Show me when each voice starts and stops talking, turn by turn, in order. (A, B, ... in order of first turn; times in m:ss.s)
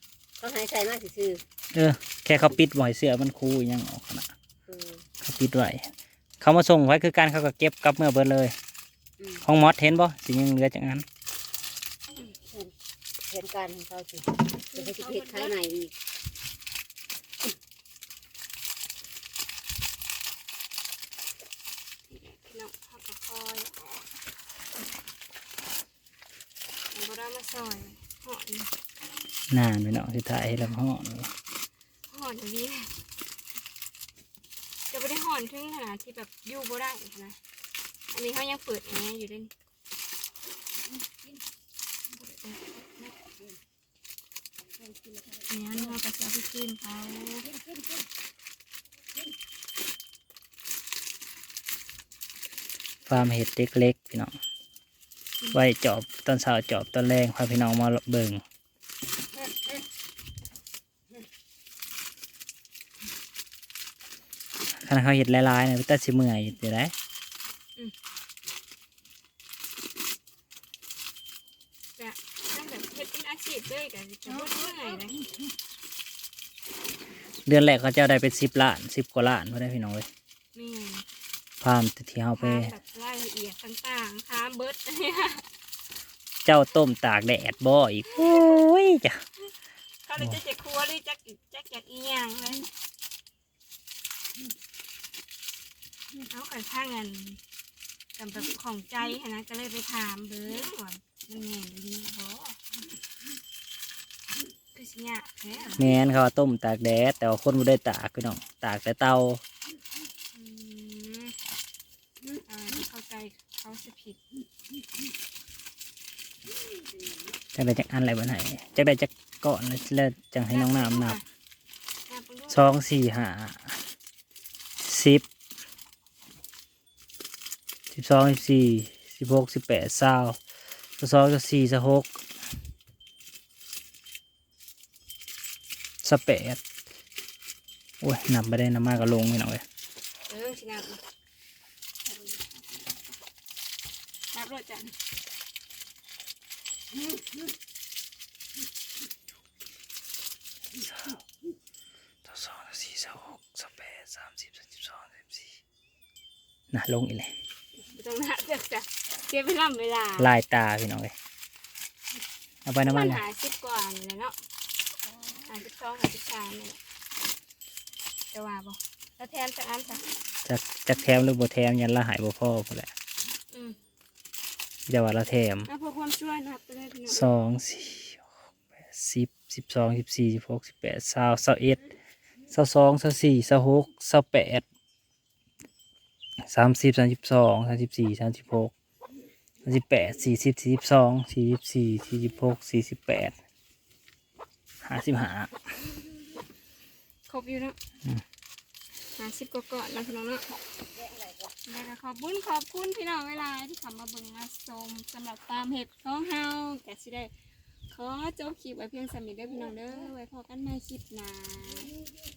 0:00.4-0:01.4 A
0:01.7-0:04.3 B
0:04.7-0:05.0 A
0:05.2-0:05.9 B
0:06.4-0:08.5 B
0:09.2-0:09.4 A
0:09.4-0:11.0 B
0:13.3-0:15.9 A
0:14.7-0:15.6 C
0:22.1-0:24.1 C
0:26.9-0:28.7 C
0:29.5-0:31.3 B
0:32.1-0:32.9 C
0:34.9-0:37.4 C
0:38.1-0:39.5 C
0:40.9-0:41.4 A
0:42.2-0:42.7 C
0:43.0-0:43.6 A
0:44.8-0:46.0 A
0:45.5-0:47.5 C
0:47.4-0:48.1 A
0:53.1-0:54.4 B
0:55.5-0:58.4 B
1:04.8-1:06.9 B
1:12.0-1:15.2 C
1:17.5-1:20.1 B
1:20.6-1:21.0 C
1:21.6-1:22.7 B
1:22.4-1:25.5 C
1:26.4-1:29.2 B
1:28.1-1:28.6 C
1:30.1-1:32.7 C
1:36.2-1:37.4 C
1:38.2-1:42.6 C
1:44.7-1:45.9 C
1:45.8-1:49.4 B
1:50.3-1:51.3 C
1:52.5-1:54.2 C
1:57.6-2:01.2 B
2:00.5-2:01.2 C
2:02.1-2:02.7 C
2:02.5-2:03.8 B
2:04.8-2:05.3 B
2:07.9-2:10.4 B
2:11.0-2:12.1 B
2:16.0-2:16.6 B
2:18.0-2:19.6 B
2:20.3-2:21.0 C
2:24.3-2:24.9 C
2:30.9-2:31.2 B
2:32.2-2:35.6 B
2:36.7-2:37.3 B
2:37.8-2:40.3 C
2:40.2-2:41.1 B
2:42.6-2:43.2 B
2:42.8-2:44.4 C
2:45.5-2:46.8 C
2:48.3-2:50.0 C
2:50.4-2:52.9 B
2:54.9-2:55.7 B
2:55.7-2:57.3 C
2:57.1-2:58.2 B
2:58.8-3:01.9 B
3:02.5-3:04.6 B
3:06.5-3:08.7 B
3:09.6-3:13.4 B
3:14.8-3:15.5 B
3:17.3-3:17.8 C
3:19.2-3:20.5 C
3:20.9-3:21.5 A
3:21.7-3:27.3 C
3:27.9-3:31.9 C